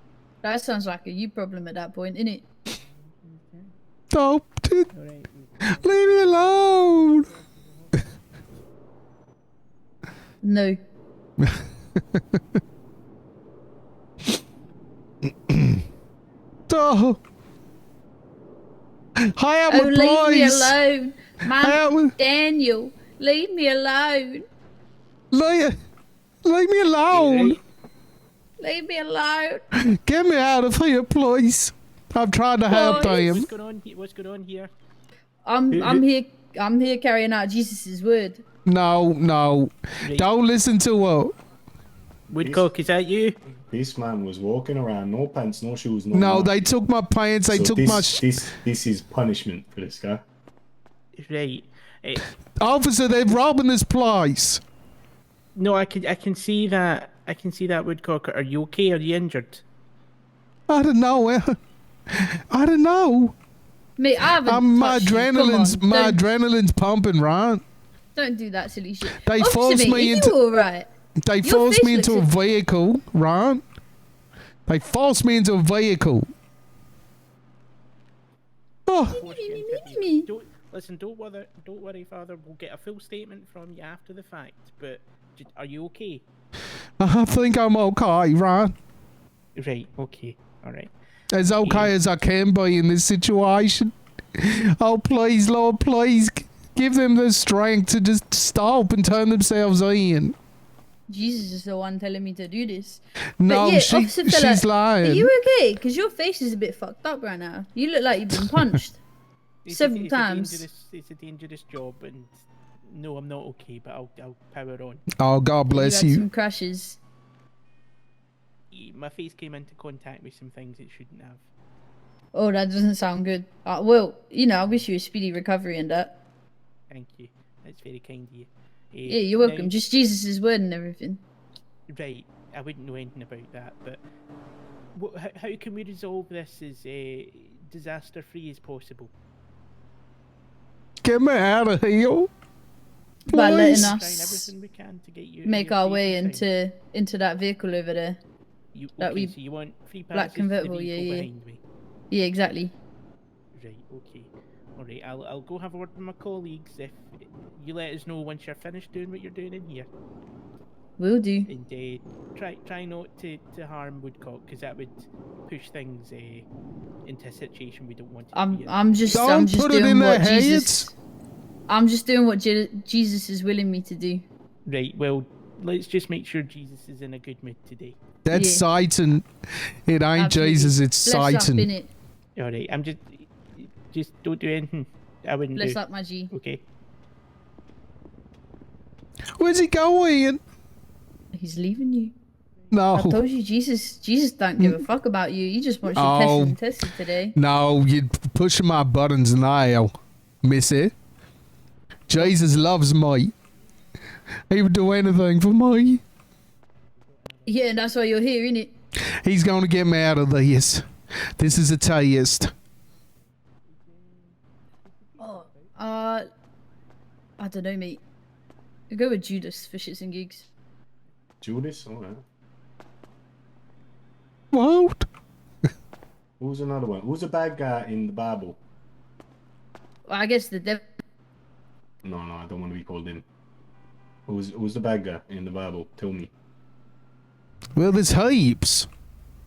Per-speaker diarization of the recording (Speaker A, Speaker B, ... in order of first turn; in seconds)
Speaker A: 0.4-2.4, 10.4-10.8, 19.7-24.4, 28.6-29.9, 32.7-33.0, 35.5-38.4, 64.0-66.3, 68.2-70.9, 71.4-72.3, 79.1-80.3, 101.1-109.0, 109.7-110.6, 115.7-117.0, 122.3-126.1, 129.1-131.2, 143.3-144.5, 145.4-148.2, 149.0-149.3, 150.1-151.3, 152.1-152.8, 161.0-161.5, 168.3-170.9, 171.7-174.2, 178.3-178.7, 180.2-181.9, 185.6-186.3, 191.3-192.1, 192.9-197.4, 207.5-208.7, 215.2-216.3, 217.4-218.0, 218.9-220.5, 230.1-230.9
Speaker B: 2.7-3.7, 4.9-8.1, 27.1-27.6, 32.7-34.7, 40.0-40.3, 42.3-43.4, 51.1-52.2, 55.5-59.6, 79.2-86.2, 89.6-90.9, 91.6-92.0, 109.7-115.0, 118.7-121.4, 126.9-129.8, 131.9-134.0, 134.9-139.1, 143.5-146.4, 148.7-151.6, 153.5-159.9, 161.5-166.5, 167.1-168.8, 174.7-178.0, 182.4-185.8, 186.3-186.6, 206.9-208.2, 213.7-215.8
Speaker C: 4.1-4.9, 5.7-7.3, 11.4-12.4, 15.5-15.8, 16.7-17.2, 19.2-20.8, 21.6-22.1, 25.3-25.8, 26.4-27.6, 29.8-33.5, 38.7-41.3, 46.1-48.2, 52.6-54.6, 60.7-61.6, 62.1-63.3, 64.5-67.6, 69.2-70.4, 71.2-73.6, 74.7-76.3, 78.9-79.2, 87.0-88.8, 91.3-100.3, 103.4-105.3, 108.5-108.8, 115.2-116.2, 141.0-142.3, 143.3-144.0, 169.1-170.9, 178.2-179.3, 179.9-181.7, 189.4-190.4, 192.7-193.2, 195.9-196.6, 197.3-199.9, 200.4-200.9, 202.1-203.3, 204.5-206.0, 209.0-210.8, 211.4-212.5, 224.5-225.1, 237.8-238.9
Speaker D: 35.7-36.0, 42.3-42.7, 43.7-46.7, 47.5-50.2, 221.4-222.2, 226.4-228.6, 232.0-233.2, 234.3-236.3